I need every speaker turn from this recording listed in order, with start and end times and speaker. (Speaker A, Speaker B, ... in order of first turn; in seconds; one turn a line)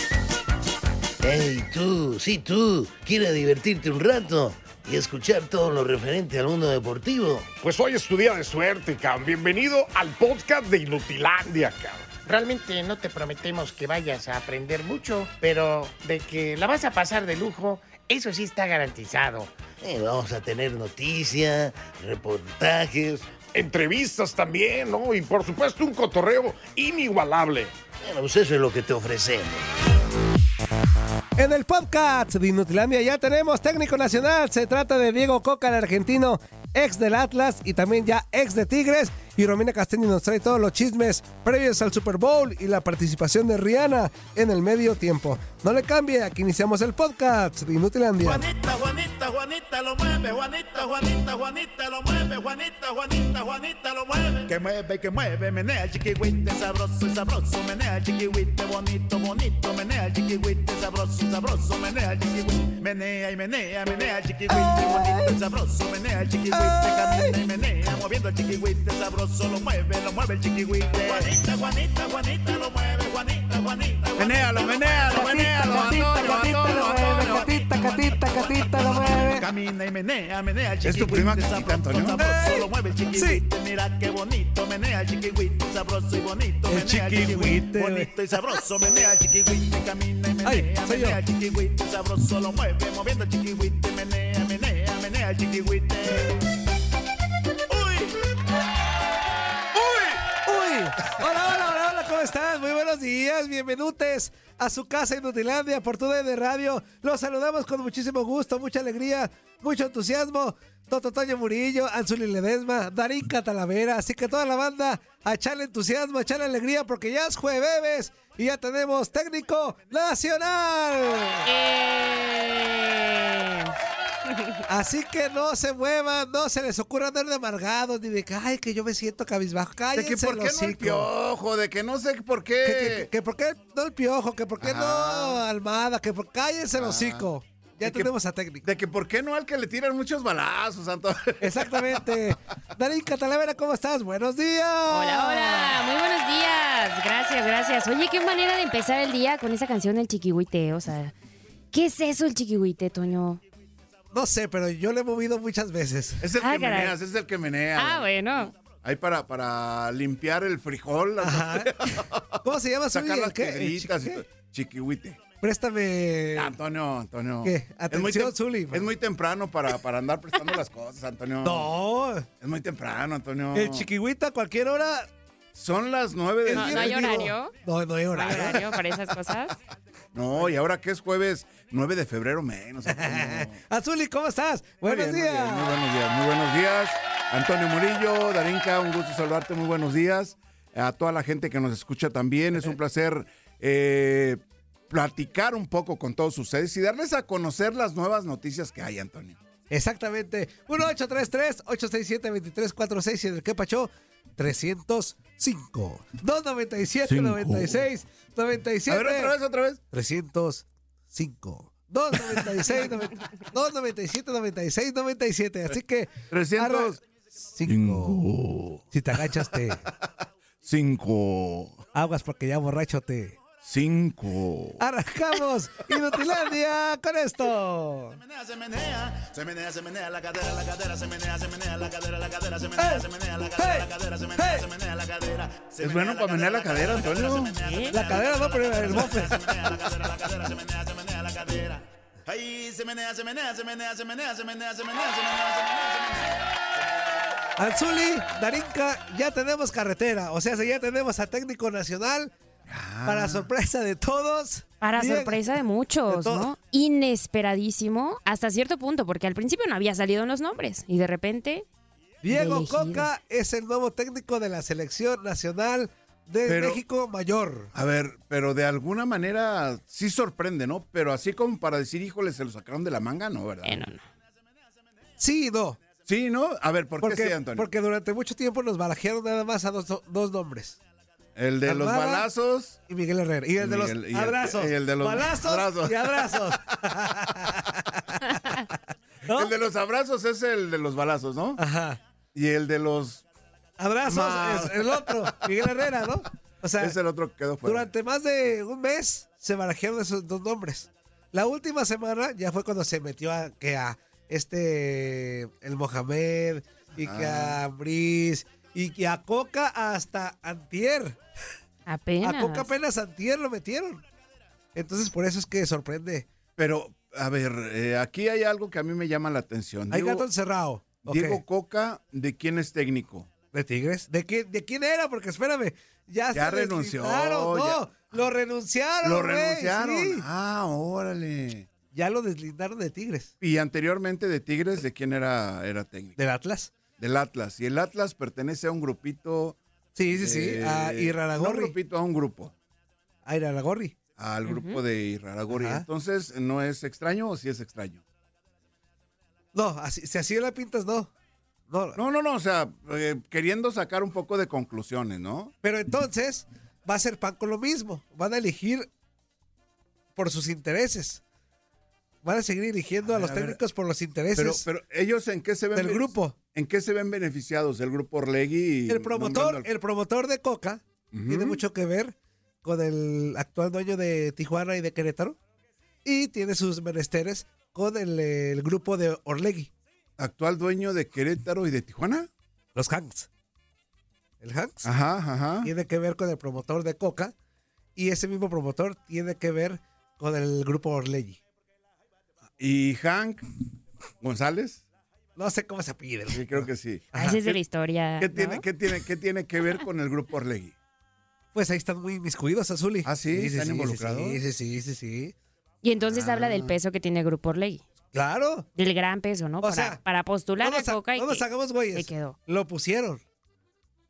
Speaker A: 1.2-7.5
Speaker B: 7.6-12.1
Speaker C: 12.3-19.6
Speaker A: 19.8-23.4
Speaker B: 23.5-27.7
Speaker A: 28.0-29.6
Speaker D: 31.4-48.5
Speaker E: 48.2-96.4
Speaker D: 64.5-65.4
Speaker D: 66.5-67.4
Speaker F: 74.2-77.6
Speaker D: 75.1-79.5
Speaker F: 80.8-82.2
Speaker D: 82.1-83.4
Speaker D: 86.7-88.6
Speaker D: 90.4-91.2
Speaker E: 97.7-98.2
Speaker E: 99.8-100.2
Speaker D: 100.4-121.5
Speaker G: 121.4-123.7
Speaker D: 124.7-131.1
Speaker F: 129.9-133.1
Speaker D: 132.6-138.7
Speaker F: 134.6-135.4
Speaker F: 136.8-137.3
Speaker F: 137.8-138.1
Speaker F: 138.6-142.1
Speaker D: 141.4-145.8
Speaker G: 144.9-151.1
Speaker G: 151.7-153.4
Speaker D: 154.1-156.2
Speaker F: 156.2-162.4
Speaker G: 156.3-156.9
Speaker G: 157.8-158.5
Speaker D: 161.2-161.7
Speaker D: 162.4-164.2
Speaker F: 162.9-165.2
Speaker D: 165.4-166.6
Speaker F: 166.4-171.7
Speaker D: 167.4-168.9
Speaker D: 171.4-172.3
Speaker F: 172.4-173.9
Speaker D: 173.5-175.1
Speaker F: 175.5-177.3
Speaker D: 176.5-178.8
Speaker G: 176.5-177.5
Speaker G: 178.1-179.6
Speaker F: 180.1-183.6
Speaker D: 182.9-185.7
Speaker F: 184.8-199.4
Speaker D: 199.7-209.3
Speaker F: 207.1-207.9
Speaker F: 208.9-209.8
Speaker D: 209.9-218.2
Speaker F: 216.3-217.0
Speaker F: 217.7-219.9
Speaker D: 218.9-219.9
Speaker F: 220.6-221.8
Speaker D: 221.9-223.4
Speaker F: 223.6-224.8
Speaker D: 224.8-228.2
Speaker E: 228.1-246.3
Speaker D: 232.8-234.7
Speaker F: 235.8-237.6
Speaker G: 237.5-238.0
Speaker D: 237.9-239.7
Speaker D: 247.6-252.3
Speaker F: 252.7-253.5
Speaker D: 253.1-255.4
Speaker G: 254.8-261.6
Speaker D: 256.1-256.5
Speaker D: 262.2-267.7
Speaker G: 262.3-263.1
Speaker F: 266.5-266.8
Speaker F: 267.7-273.8
Speaker G: 273.6-274.0
Speaker D: 275.2-275.8
Speaker F: 276.1-277.7
Speaker D: 277.0-280.8
Speaker F: 281.4-282.8
Speaker D: 281.7-282.3
Speaker D: 282.9-288.0
Speaker F: 283.6-286.6
Speaker F: 289.3-291.6
Speaker D: 291.6-292.0
Speaker F: 292.3-293.2
Speaker D: 293.8-297.0
Speaker F: 294.1-295.7
Speaker F: 296.8-297.9
Speaker D: 297.6-311.2
Speaker F: 306.9-307.6
Speaker G: 311.9-312.7
Speaker D: 312.2-314.0
Speaker D: 314.8-316.3
Speaker F: 316.6-320.3
Speaker D: 319.9-321.4
Speaker F: 321.1-323.3
Speaker D: 323.5-330.2
Speaker F: 326.3-328.3
Speaker F: 329.0-331.7
Speaker D: 331.9-333.3
Speaker F: 333.4-336.2
Speaker D: 336.2-336.7
Speaker F: 337.0-342.5
Speaker D: 340.0-341.7
Speaker D: 343.2-343.9
Speaker F: 344.2-348.0
Speaker G: 344.4-344.8
Speaker D: 345.5-345.9
Speaker D: 349.5-351.1
Speaker D: 351.7-352.0
Speaker F: 351.9-355.5
Speaker D: 355.6-358.9
Speaker D: 360.2-361.2
Speaker D: 362.2-364.7
Speaker F: 363.0-363.6
Speaker F: 364.4-369.7
Speaker D: 365.8-366.4
Speaker D: 368.9-375.4
Speaker F: 371.1-371.6
Speaker D: 376.1-379.7
Speaker F: 380.2-382.3
Speaker D: 382.8-383.3
Speaker D: 384.4-384.9
Speaker F: 384.8-385.7
Speaker D: 385.6-387.3
Speaker D: 388.0-391.4
Speaker F: 392.6-393.4
Speaker F: 394.2-394.8
Speaker D: 395.4-397.4
Speaker F: 396.3-397.6
Speaker G: 397.1-398.6
Speaker F: 398.2-400.8
Speaker D: 401.5-405.4
Speaker F: 403.1-404.4
Speaker G: 405.8-407.8
Speaker F: 406.0-406.8
Speaker D: 408.1-408.7
Speaker G: 408.8-412.4
Speaker D: 409.6-410.0
Speaker D: 410.6-413.2